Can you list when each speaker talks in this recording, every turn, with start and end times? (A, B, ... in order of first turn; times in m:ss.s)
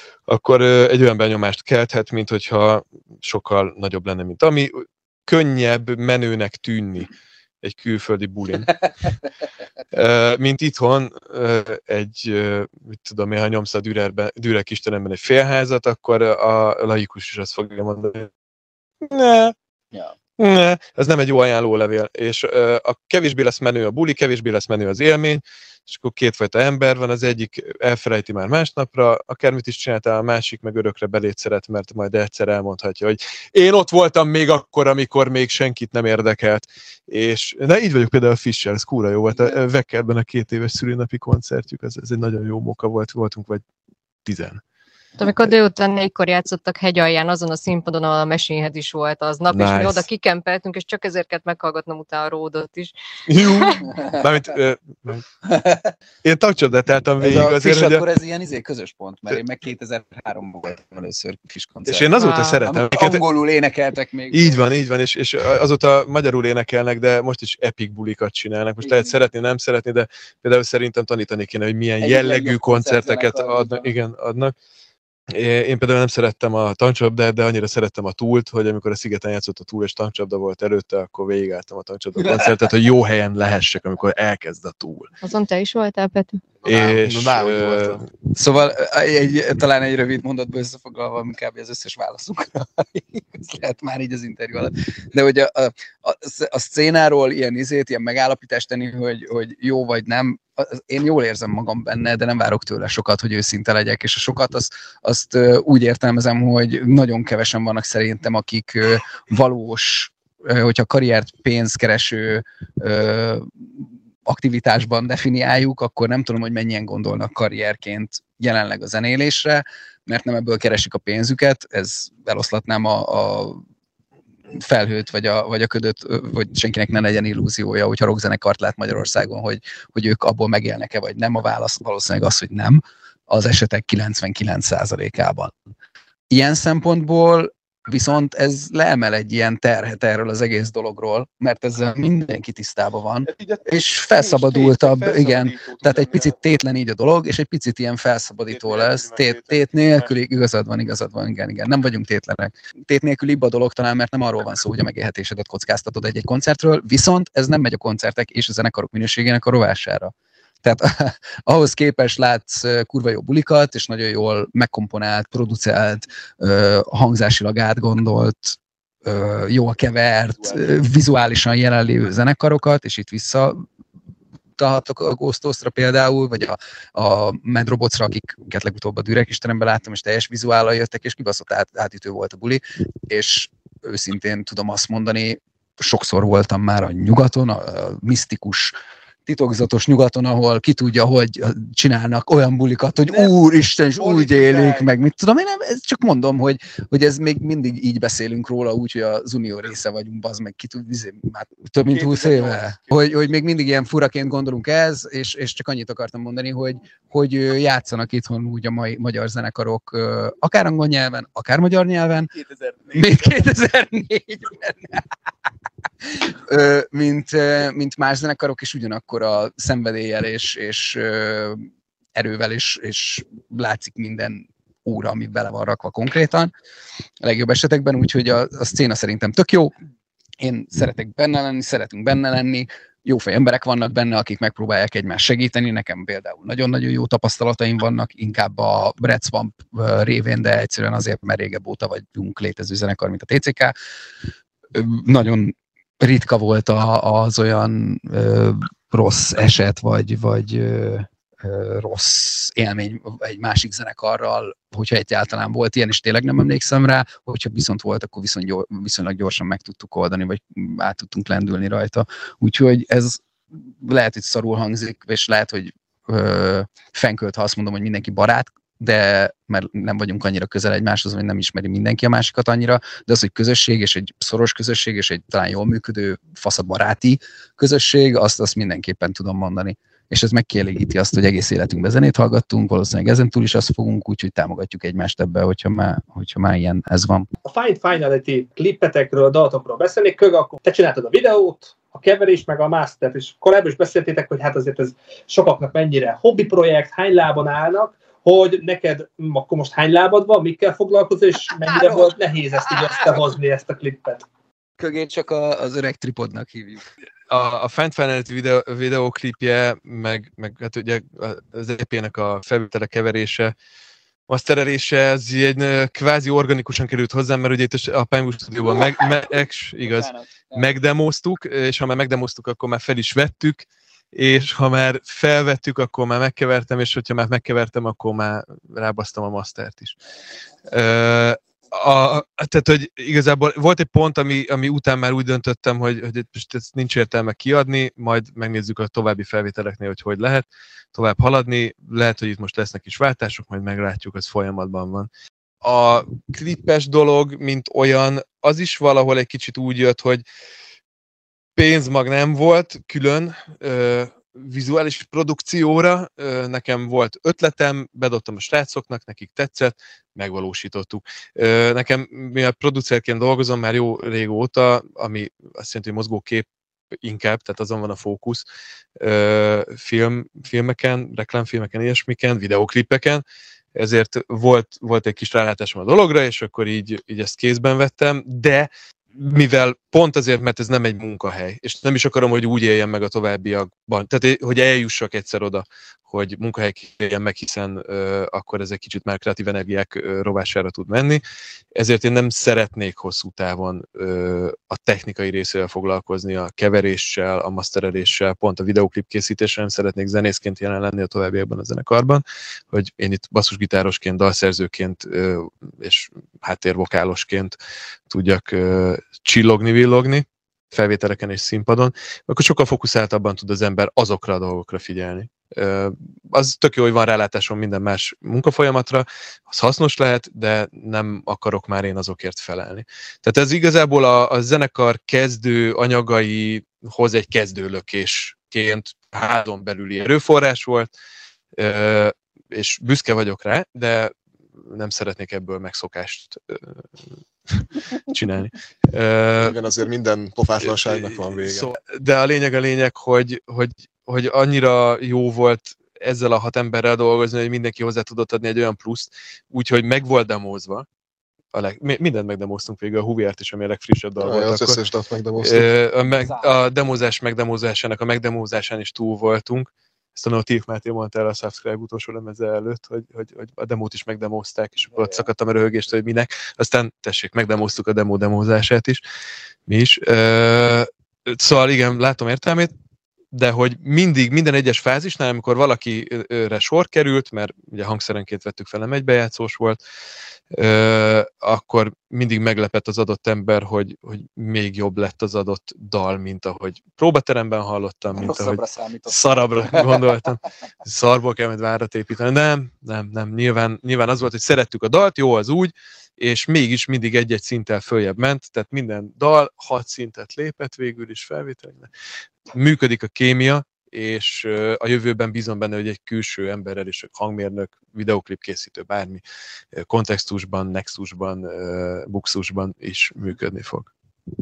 0:00.3-0:07.1 A
0:07.6-0:09.1 A
0:09.9-0:18.3 A
0:19.0-0:19.5 A
0:20.4-0:43.6 A
0:44.2-0:44.6 A
0:45.2-0:53.8 B
0:49.5-0:50.0 A
0:53.3-0:55.2 A
0:55.5-0:55.9 C
0:56.2-0:58.0 A
0:57.2-1:04.6 C
1:01.8-1:03.2 A
1:02.2-1:02.6 B
1:04.3-1:14.5 A
1:08.8-1:09.1 C
1:12.0-1:13.9 C
1:15.3-1:25.1 A
1:22.2-1:22.5 C
1:25.2-1:26.4 B
1:26.6-1:28.0 A
1:26.6-1:28.0 D
1:28.3-2:03.6 C
2:04.5-2:15.7 C
2:16.3-2:53.6 C
2:23.3-2:26.4 A
2:28.5-2:30.2 A
2:54.6-3:32.3 C
3:14.0-3:14.8 A
3:21.9-3:23.3 A
3:32.3-3:33.3 A
3:32.9-3:35.0 C
3:36.0-3:46.5 C
3:47.2-3:49.7 C
3:50.4-4:03.7 C
4:04.7-4:47.3 C
4:47.4-5:04.2 E
5:01.7-5:02.1 C
5:04.8-5:06.8 C
5:07.3-5:13.5 A
5:14.3-5:30.0 A
5:30.7-5:45.1 A
5:45.6-5:50.2 A
5:51.6-6:06.5 A
6:07.0-6:08.4 A
6:09.0-6:13.2 A
6:13.7-6:31.2 A
6:31.7-6:47.6 A
6:48.1-7:10.9 A
7:11.6-7:16.7 A
7:17.5-7:19.6 A
7:19.4-7:21.7 D
7:20.6-7:30.8 A
7:31.5-7:34.8 A
7:34.2-7:35.7 D
7:35.4-7:49.0 A
7:36.2-7:36.5 C
7:49.7-7:52.7 A
7:53.3-7:59.8 A
8:00.5-8:21.9 A
8:08.1-8:10.0 C
8:22.5-8:29.2 A
8:29.7-8:33.9 A